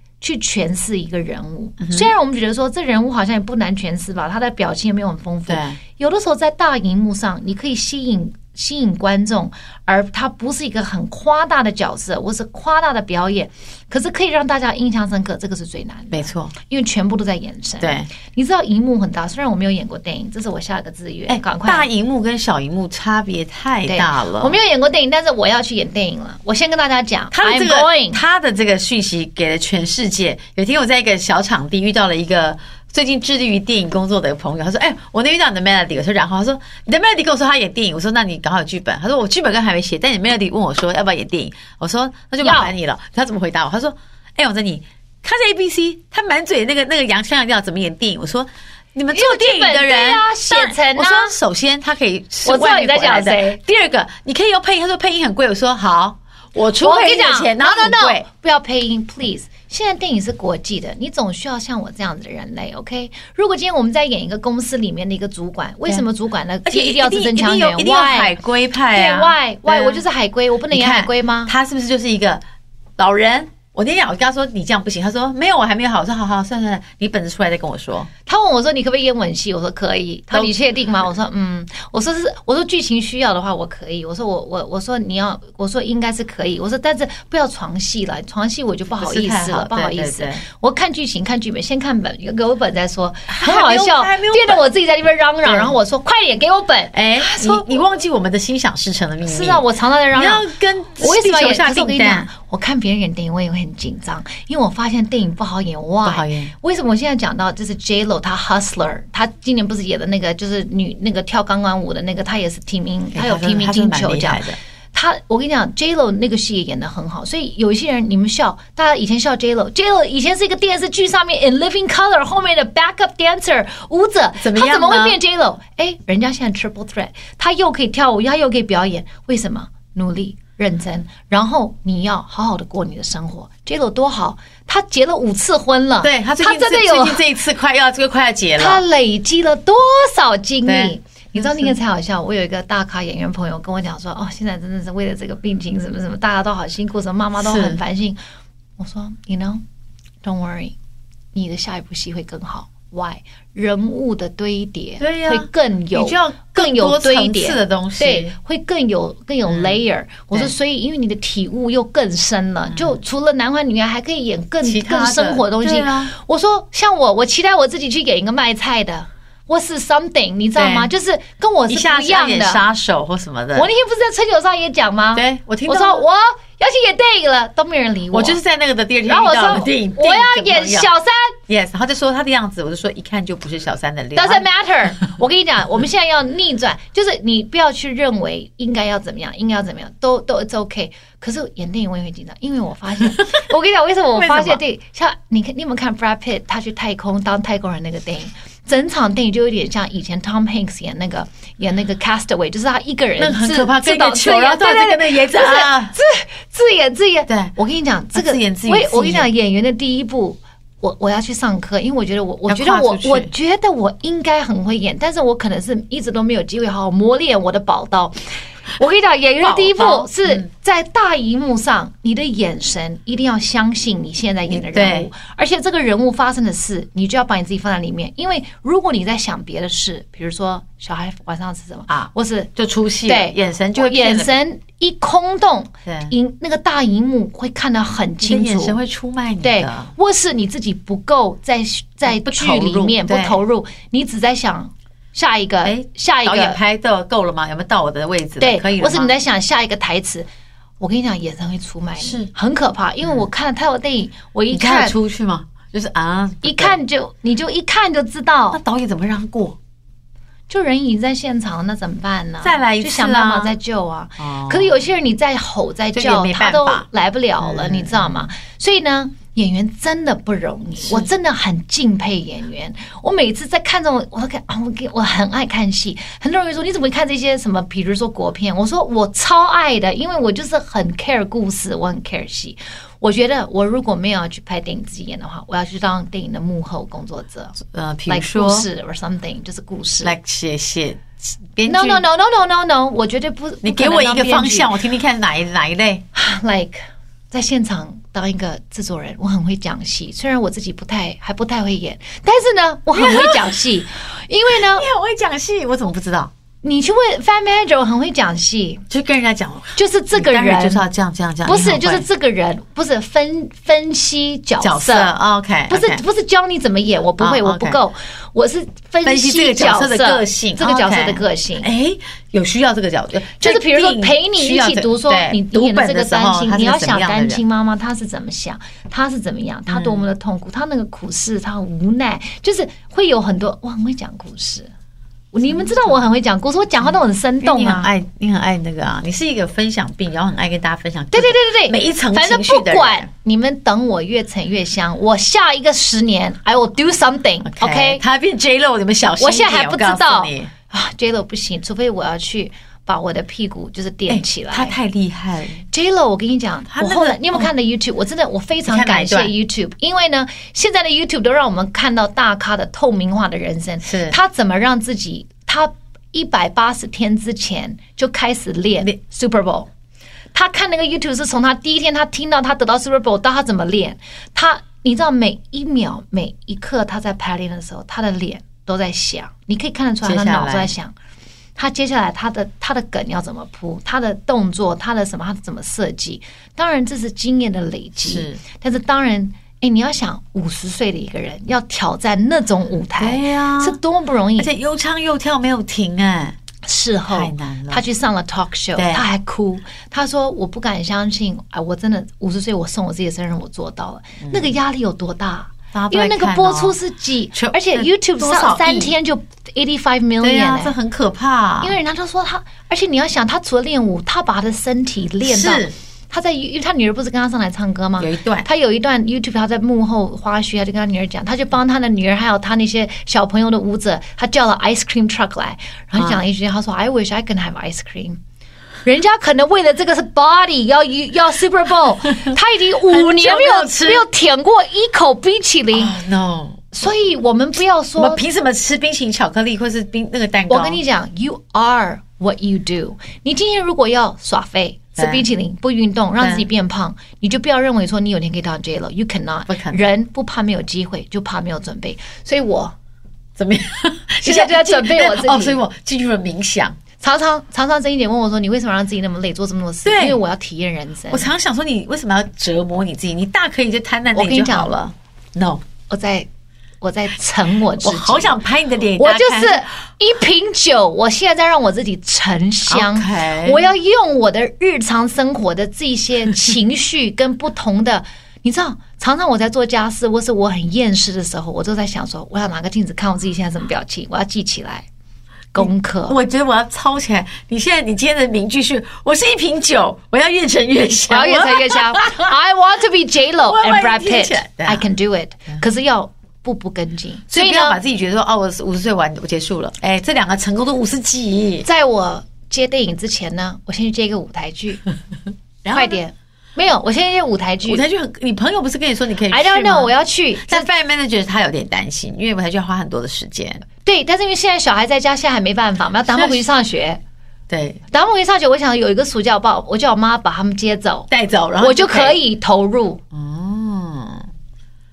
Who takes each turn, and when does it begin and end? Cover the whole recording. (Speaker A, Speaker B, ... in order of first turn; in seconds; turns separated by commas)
Speaker A: 0.2-21.9, Speaker B: 1.8-2.1, Speaker B: 5.5-5.8, Speaker B: 16.1-16.5, Speaker B: 17.8-18.1, Speaker B: 21.3-24.6, Speaker A: 23.9-28.2, Speaker B: 27.3-58.2, Speaker A: 42.4-42.7, Speaker A: 49.1-51.4, Speaker A: 52.5-53.6, Speaker A: 56.8-68.4, Speaker B: 66.6-70.0, Speaker A: 68.9-71.5, Speaker B: 70.7-72.4, Speaker B: 73.0-78.1, Speaker A: 78.2-97.8, Speaker B: 89.0-90.4, Speaker B: 93.3-94.7, Speaker B: 95.4-95.8, Speaker B: 96.9-102.3, Speaker A: 99.2-100.5, Speaker A: 101.0-137.2, Speaker B: 106.0-106.5, Speaker B: 113.1-114.6, Speaker B: 124.4-125.2, Speaker B: 136.0-138.8, Speaker A: 138.6-148.2, Speaker B: 140.6-141.7, Speaker B: 147.4-147.8, Speaker A: 148.8-149.6, Speaker A: 150.2-150.8, Speaker A: 151.3-172.6, Speaker B: 155.0-158.3, Speaker B: 159.5-159.8, Speaker B: 162.7-163.0, Speaker B: 164.6-166.1, Speaker B: 170.6-170.9, Speaker B: 171.7-173.7, Speaker A: 173.6-178.4, Speaker B: 175.1-176.0, Speaker B: 178.1-180.9, Speaker A: 179.1-181.4, Speaker B: 181.5-184.5, Speaker A: 184.2-232.5, Speaker B: 194.2-194.6, Speaker B: 203.2-205.9, Speaker B: 207.3-207.5, Speaker B: 208.2-209.3, Speaker B: 212.5-213.3, Speaker B: 219.4-220.5, Speaker B: 224.5-225.1, Speaker B: 231.9-234.4, Speaker A: 233.1-238.8, Speaker B: 235.9-236.1, Speaker B: 238.2-239.9, Speaker A: 239.4-246.6, Speaker B: 242.1-243.4, Speaker B: 245.6-249.2, Speaker A: 248.4-250.3, Speaker A: 250.8-255.0, Speaker B: 252.0-252.3, Speaker B: 254.5-256.8, Speaker A: 256.4-258.6, Speaker B: 258.5-259.6, Speaker A: 260.5-290.2, Speaker B: 262.4-263.5, Speaker B: 264.2-264.8, Speaker B: 265.9-266.9, Speaker B: 267.4-268.3, Speaker B: 270.8-271.1, Speaker B: 287.6-288.7, Speaker B: 290.0-292.0, Speaker A: 291.7-294.8, Speaker B: 293.6-296.0, Speaker A: 296.1-304.9, Speaker B: 302.9-303.6, Speaker B: 304.5-306.3, Speaker A: 306.6-308.8, Speaker B: 308.9-312.1, Speaker A: 309.8-310.8, Speaker A: 311.4-315.1, Speaker B: 314.6-316.0, Speaker A: 315.7-321.7, Speaker B: 317.2-317.8, Speaker B: 319.0-327.4, Speaker A: 323.4-334.7, Speaker B: 329.7-330.1, Speaker A: 335.3-337.9, Speaker B: 335.5-336.0, Speaker B: 336.8-343.1, Speaker A: 341.1-348.0, Speaker B: 347.4-350.5, Speaker A: 349.2-354.8, Speaker B: 354.1-355.6, Speaker A: 355.7-369.7, Speaker B: 356.7-357.5, Speaker B: 358.7-359.3, Speaker B: 363.8-364.2, Speaker A: 370.3-380.9, Speaker B: 380.0-380.7, Speaker A: 381.6-394.5, Speaker B: 388.0-388.4, Speaker B: 393.0-393.8, Speaker B: 394.4-396.4, Speaker A: 396.6-410.7, Speaker B: 397.1-397.8, Speaker B: 398.8-399.0, Speaker B: 404.2-404.5, Speaker B: 405.7-406.8, Speaker B: 407.3-408.9, Speaker B: 410.2-411.8, Speaker A: 411.6-428.2, Speaker B: 415.2-415.7, Speaker B: 418.0-418.5, Speaker B: 426.0-426.2, Speaker A: 428.8-435.9, Speaker B: 432.9-434.1, Speaker B: 435.7-436.7, Speaker A: 436.7-438.2, Speaker B: 438.0-440.8, Speaker A: 440.5-452.8, Speaker B: 445.0-445.2, Speaker B: 446.2-446.5, Speaker B: 449.5-449.8, Speaker B: 453.4-456.8, Speaker A: 454.2-455.6, Speaker A: 457.0-461.3, Speaker B: 459.8-460.2, Speaker B: 461.1-465.6, Speaker A: 464.1-464.7, Speaker A: 465.9-466.3, Speaker A: 466.8-468.4, Speaker B: 467.8-469.7, Speaker A: 469.0-484.9, Speaker B: 472.7-473.7, Speaker A: 485.5-486.2, Speaker B: 485.6-492.3, Speaker A: 491.1-497.8, Speaker B: 493.4-494.9, Speaker B: 497.3-501.7, Speaker A: 501.6-504.8, Speaker B: 505.6-506.0, Speaker A: 505.7-507.8, Speaker B: 507.6-513.6, Speaker A: 509.3-510.7, Speaker A: 513.8-517.0, Speaker B: 516.1-516.4, Speaker B: 517.5-517.8, Speaker A: 517.9-523.0, Speaker B: 521.1-522.2, Speaker B: 523.1-524.3